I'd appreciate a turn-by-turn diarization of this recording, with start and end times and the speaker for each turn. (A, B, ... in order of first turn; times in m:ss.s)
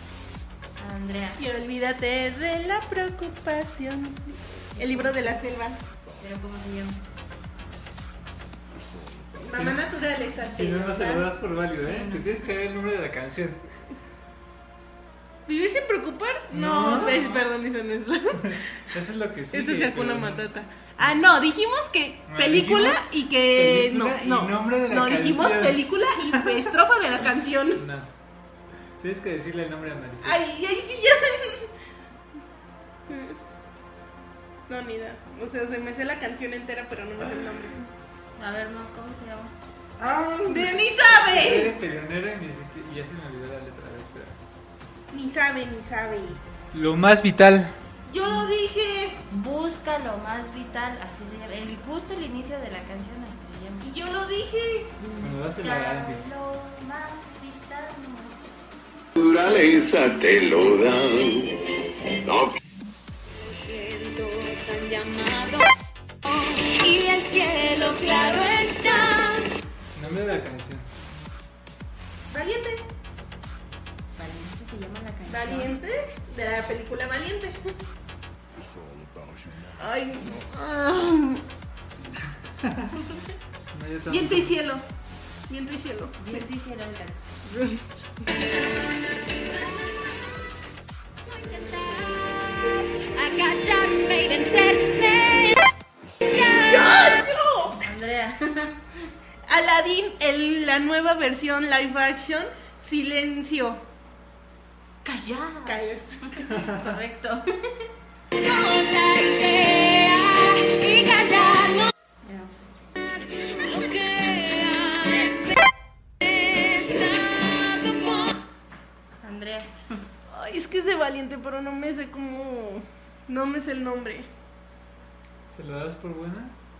0:00.8-0:01.4 A
0:01.4-0:05.8 B
0:04.8-0:05.2 A
0:06.2-0:07.0 A
0:09.4-0:11.3 B
0:09.5-0:09.9 C
0:10.4-0:13.6 C
0:11.8-0:12.5 A
0:15.5-0:18.9 B
0:16.5-0:17.4 C
0:18.4-0:21.2 C
0:19.5-0:27.8 B
0:22.3-0:26.6 C
0:27.7-0:28.1 C
0:29.0-0:30.4 C
0:30.2-0:31.7 B
0:33.1-0:33.4 B
0:34.7-0:37.9 B
0:38.4-0:39.5 A
0:40.0-0:44.4 C
0:40.5-0:41.8 B
0:45.1-0:46.4 B
0:46.7-0:47.8 C
0:48.1-0:49.2 B
0:49.3-0:53.9 A
0:53.8-0:55.0 B
0:55.1-0:58.7 A
0:55.2-0:56.2 C
0:59.2-1:01.5 D
1:02.2-1:02.5 D
1:03.3-1:05.6 E
1:06.2-1:09.5 E
1:09.9-1:10.9 C
1:12.3-1:12.8 B
1:14.2-1:15.8 A
1:15.3-1:17.7 B
1:19.8-1:21.4 B
1:22.5-1:22.9 C
1:23.7-1:24.6 C
1:24.1-1:24.8 B
1:25.5-1:26.5 B
1:26.2-1:27.4 A
1:29.5-1:30.4 E
1:31.3-1:35.6 E
1:36.3-1:37.2 E
1:36.5-1:37.8 B
1:37.8-1:38.8 A
1:39.5-1:43.8 B
1:45.0-1:47.5 A
1:45.7-1:46.3 B
1:46.5-1:46.9 C
1:48.3-1:51.9 E
1:52.2-1:52.9 A
1:53.4-1:55.6 E
1:56.2-1:58.4 E
1:59.2-2:00.0 A
2:00.3-2:04.3 B
2:05.5-2:06.5 C